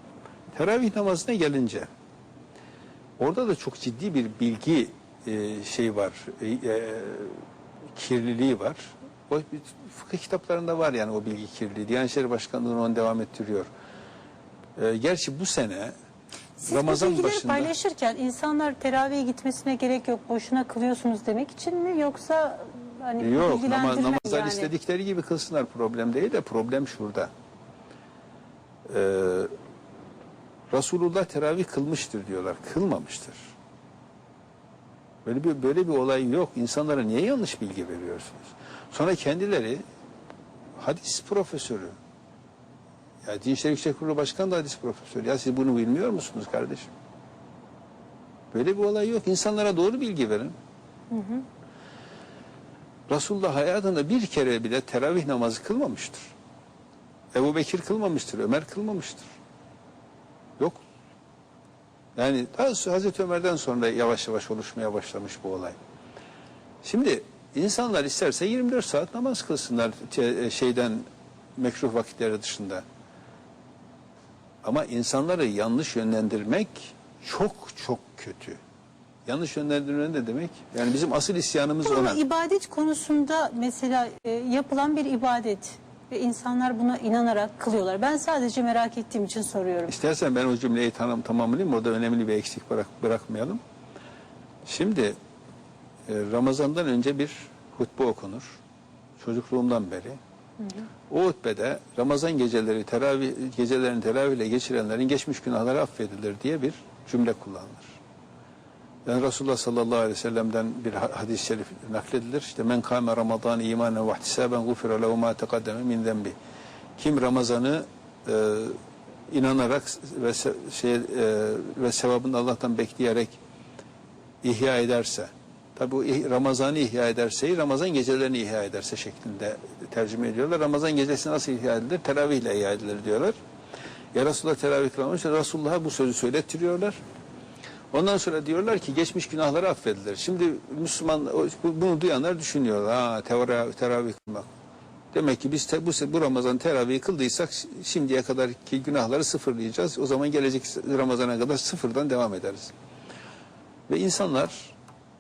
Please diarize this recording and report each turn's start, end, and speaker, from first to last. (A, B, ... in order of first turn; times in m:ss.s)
0:00.5-0:01.9 A
0:03.2-0:07.4 A
0:08.0-0:13.7 A
0:14.8-0:15.9 A
0:16.6-0:24.7 B
0:16.6-0:17.7 A
0:23.2-0:27.3 A
0:28.9-0:29.5 A
0:30.7-0:33.4 A
0:35.2-0:39.8 A
0:40.8-0:42.0 A
0:43.2-0:46.9 A
0:48.5-0:50.5 A
0:51.1-0:51.4 B
0:53.1-0:56.3 A
0:57.3-0:59.3 A
1:02.2-1:05.8 A
1:06.8-1:11.1 A
1:11.6-1:12.8 A
1:14.6-1:18.6 A
1:19.3-1:22.2 A
1:21.8-1:30.0 B
1:29.9-1:33.6 A
1:34.6-1:35.2 A
1:36.1-1:38.6 A
1:39.2-1:40.2 A
1:41.1-1:48.0 A
1:49.1-1:56.4 A
1:57.0-1:58.8 A
1:59.3-2:03.4 A
2:04.4-2:13.4 A
2:14.1-2:17.0 A
2:17.9-2:24.5 A
2:25.1-2:32.7 A
2:33.9-2:34.7 A